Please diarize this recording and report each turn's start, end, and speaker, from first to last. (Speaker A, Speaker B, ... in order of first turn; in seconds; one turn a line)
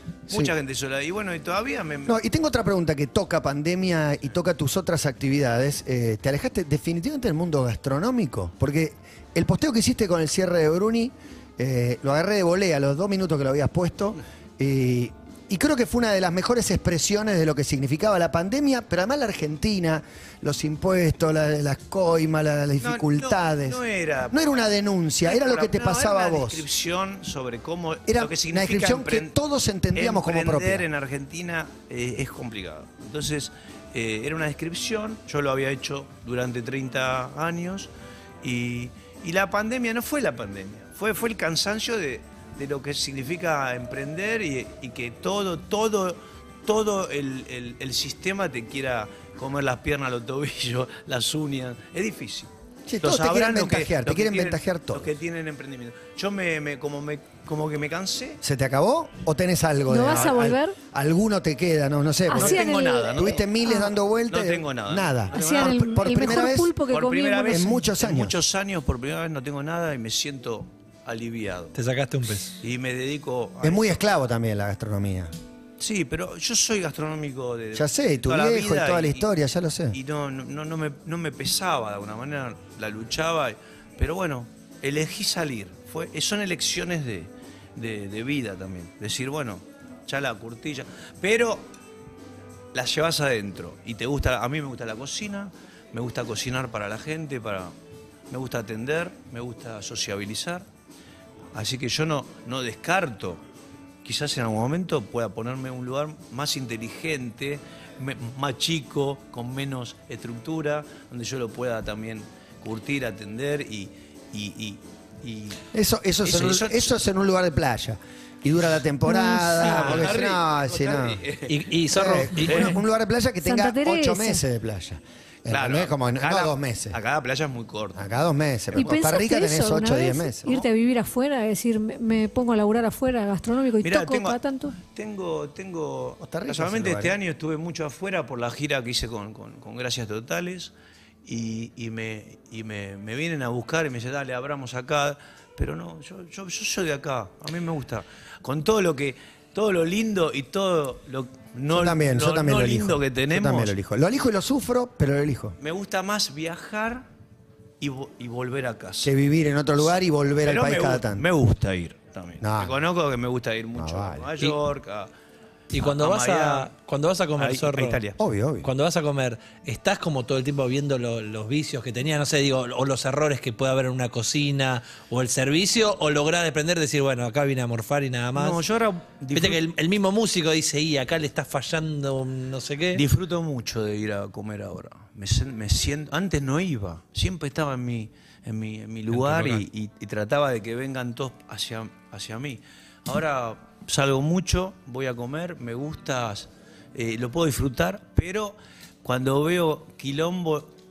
Speaker A: 0.3-2.2
Speaker B: 2.0-26.6
Speaker A: 22.8-24.5
Speaker A: 25.2-29.3
Speaker B: 28.1-30.9
Speaker A: 29.9-37.9
Speaker A: 38.4-52.5
Speaker B: 52.9-55.1
Speaker A: 53.0-58.4
Speaker B: 58.4-66.7
Speaker C: 59.9-60.8
Speaker C: 62.3-63.9
Speaker A: 62.3-63.5
Speaker A: 64.3-66.0
Speaker C: 65.3-67.8
Speaker A: 66.9-71.7
Speaker B: 67.5-68.3
Speaker D: 71.7-72.6
Speaker A: 72.6-74.0
Speaker B: 73.6-75.3
Speaker A: 75.8-79.3
Speaker B: 77.7-80.0
Speaker A: 79.9-91.7
Speaker A: 92.7-97.7
Speaker A: 98.3-100.7
Speaker A: 101.5-103.4
Speaker A: 104.0-115.6
Speaker B: 115.7-121.2
Speaker A: 116.2-117.0
Speaker C: 119.1-119.6
Speaker A: 119.5-121.7
Speaker D: 121.5-122.8
Speaker B: 121.9-127.0
Speaker A: 122.4-122.8
Speaker C: 123.4-124.4
Speaker A: 125.5-128.0
Speaker B: 127.9-130.5
Speaker C: 128.7-134.8
Speaker A: 133.8-140.7
Speaker B: 136.2-137.2
Speaker A: 141.2-153.7
Speaker B: 151.7-155.6
Speaker A: 155.6-157.1
Speaker A: 157.8-159.1
Speaker B: 159.0-161.2
Speaker A: 160.4-165.1
Speaker B: 162.4-162.8
Speaker B: 163.8-164.3
Speaker D: 165.7-168.0
Speaker A: 165.8-166.7
Speaker A: 167.4-168.2
Speaker B: 168.2-168.7
Speaker D: 168.6-178.6
Speaker A: 178.3-179.6
Speaker D: 179.3-183.0
Speaker A: 182.9-200.7
Speaker D: 189.1-189.6